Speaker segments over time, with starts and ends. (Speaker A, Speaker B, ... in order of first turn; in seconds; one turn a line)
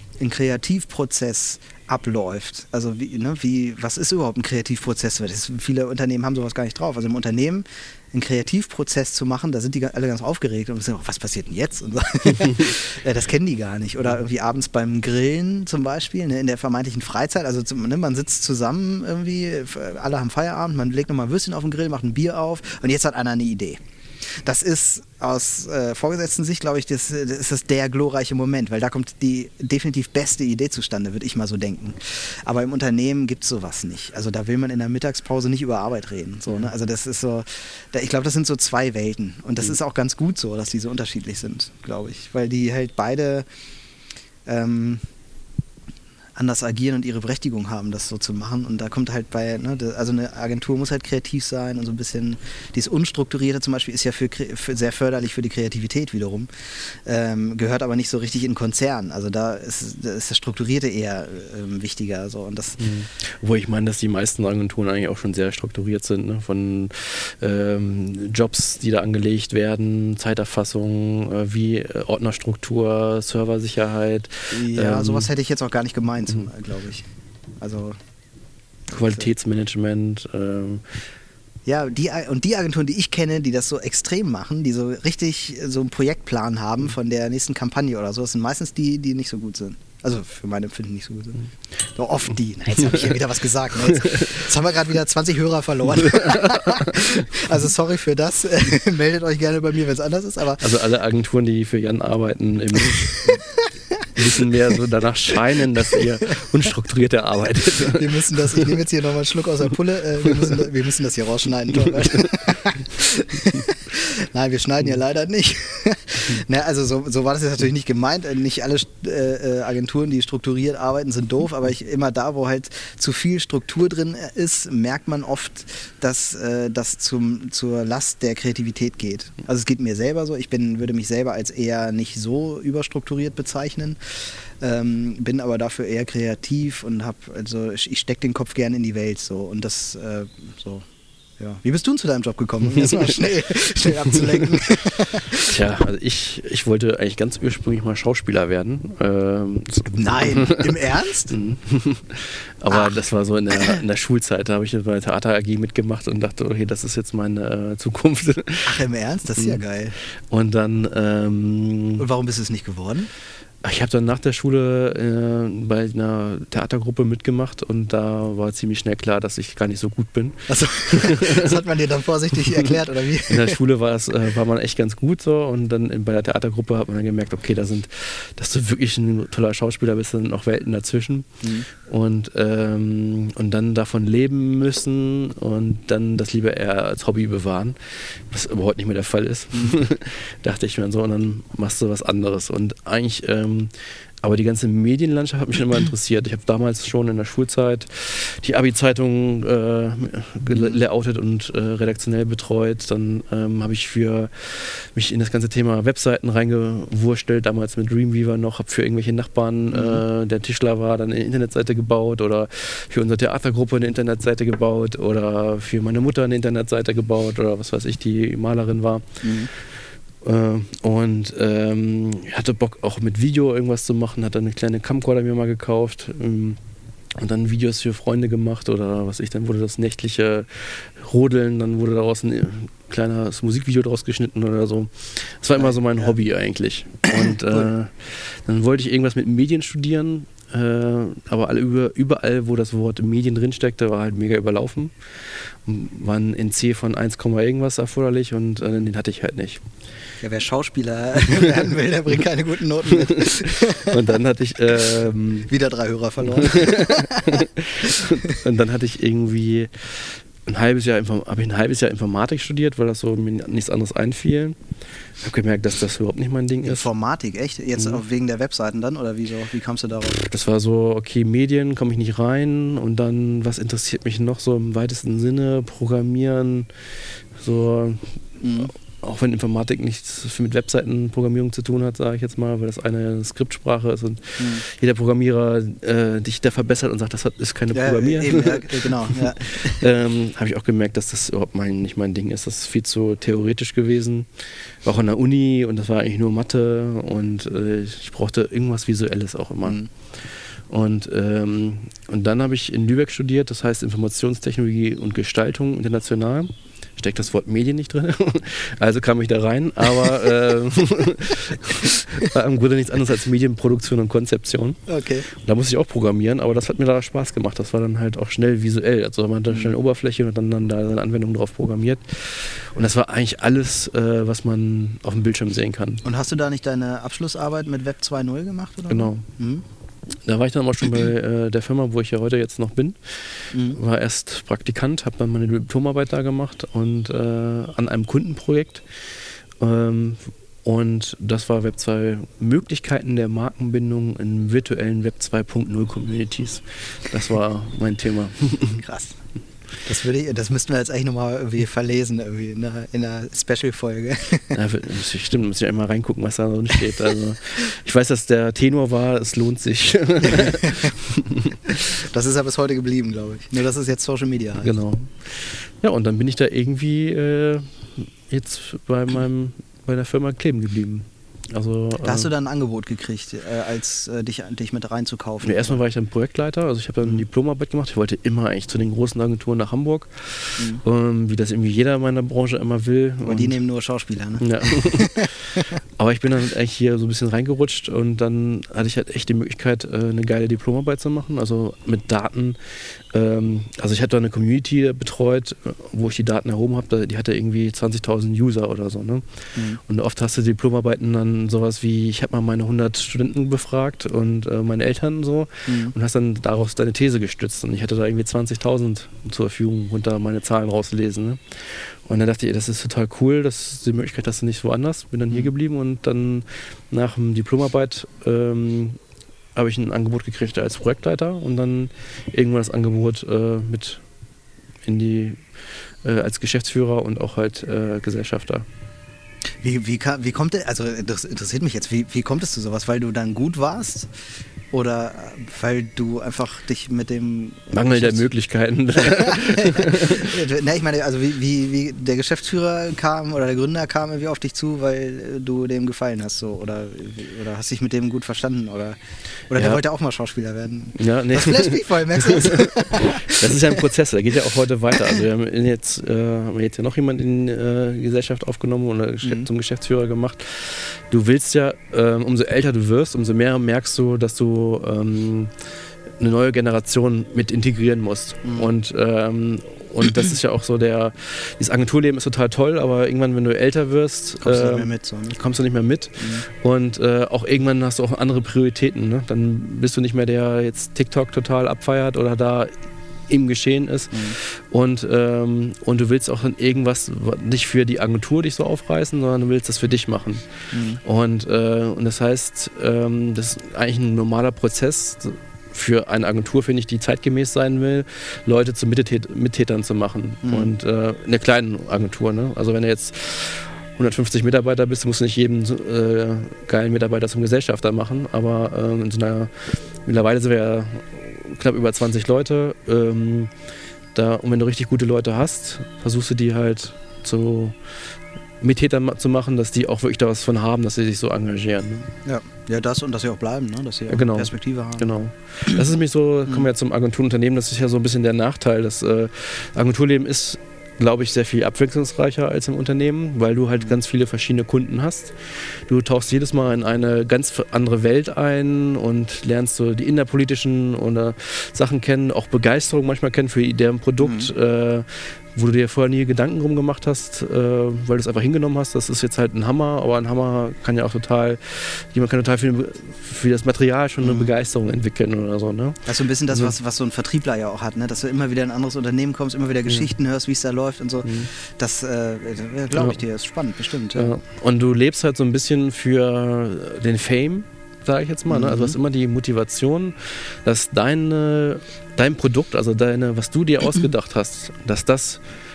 Speaker A: 0.2-23.8
Speaker A: 24.4-43.5
Speaker A: 44.5-45.0
Speaker A: 46.4-62.9
Speaker B: 62.8-75.3
Speaker A: 74.5-77.1
Speaker A: 77.6-78.0
Speaker A: 78.9-79.3
Speaker B: 78.9-81.0
Speaker A: 81.7-100.7
Speaker B: 100.6-103.4
Speaker A: 103.0-104.5
Speaker B: 104.2-108.8
Speaker A: 105.8-106.4
Speaker A: 107.8-140.8
Speaker B: 111.8-112.3
Speaker A: 141.4-145.6
Speaker B: 142.7-143.2
Speaker B: 144.1-144.5
Speaker B: 145.4-158.8
Speaker A: 149.9-151.3
Speaker A: 152.7-153.8
Speaker A: 158.6-160.0
Speaker B: 160.1-162.0
Speaker A: 162.0-163.1
Speaker B: 163.6-171.6
Speaker A: 170.5-173.6
Speaker B: 173.3-219.2
Speaker A: 200.5-200.8
Speaker A: 209.7-210.0
Speaker A: 219.2-219.5
Speaker B: 220.2-226.6
Speaker B: 227.1-249.6
Speaker A: 235.6-236.2
Speaker A: 237.1-237.7
Speaker A: 250.2-254.1
Speaker B: 251.3-251.7
Speaker B: 253.0-255.5
Speaker A: 255.5-258.4
Speaker B: 256.2-264.6
Speaker B: 265.2-266.9
Speaker A: 266.6-270.3
Speaker B: 270.2-276.8
Speaker B: 277.4-326.0
Speaker A: 278.4-278.7
Speaker A: 284.4-284.6
Speaker A: 287.7-289.9
Speaker A: 311.9-312.3
Speaker A: 314.9-315.3
Speaker A: 319.5-319.8
Speaker A: 326.0-329.6
Speaker B: 328.9-329.3
Speaker B: 330.2-338.9
Speaker A: 333.5-333.8
Speaker B: 339.6-348.8
Speaker A: 348.8-349.2
Speaker A: 349.9-354.6
Speaker B: 354.5-361.7
Speaker A: 360.2-361.0
Speaker A: 361.6-364.7
Speaker B: 364.6-372.3
Speaker A: 372.0-375.8
Speaker B: 375.4-383.6
Speaker A: 383.2-385.7
Speaker B: 384.4-399.2
Speaker A: 399.6-399.8
Speaker B: 399.8-419.0
Speaker A: 405.7-405.9
Speaker B: 419.6-424.0
Speaker B: 424.9-425.4
Speaker B: 426.0-428.7
Speaker A: 429.6-434.1
Speaker A: 434.7-438.3
Speaker B: 437.7-440.4
Speaker A: 438.9-453.8
Speaker B: 449.6-449.8
Speaker B: 450.9-465.6
Speaker A: 459.2-459.5
Speaker B: 466.2-482.7
Speaker A: 468.4-468.7
Speaker A: 474.4-475.4
Speaker A: 476.2-476.4
Speaker B: 483.3-513.5
Speaker A: 490.7-491.0
Speaker A: 500.4-500.7
Speaker B: 514.1-518.0
Speaker B: 518.6-522.1
Speaker A: 522.3-525.1
Speaker B: 524.1-556.8
Speaker A: 544.2-544.5
Speaker A: 554.2-554.5
Speaker A: 556.1-564.4
Speaker B: 561.2-561.5
Speaker B: 562.9-563.2
Speaker B: 564.1-575.4
Speaker A: 568.5-569.0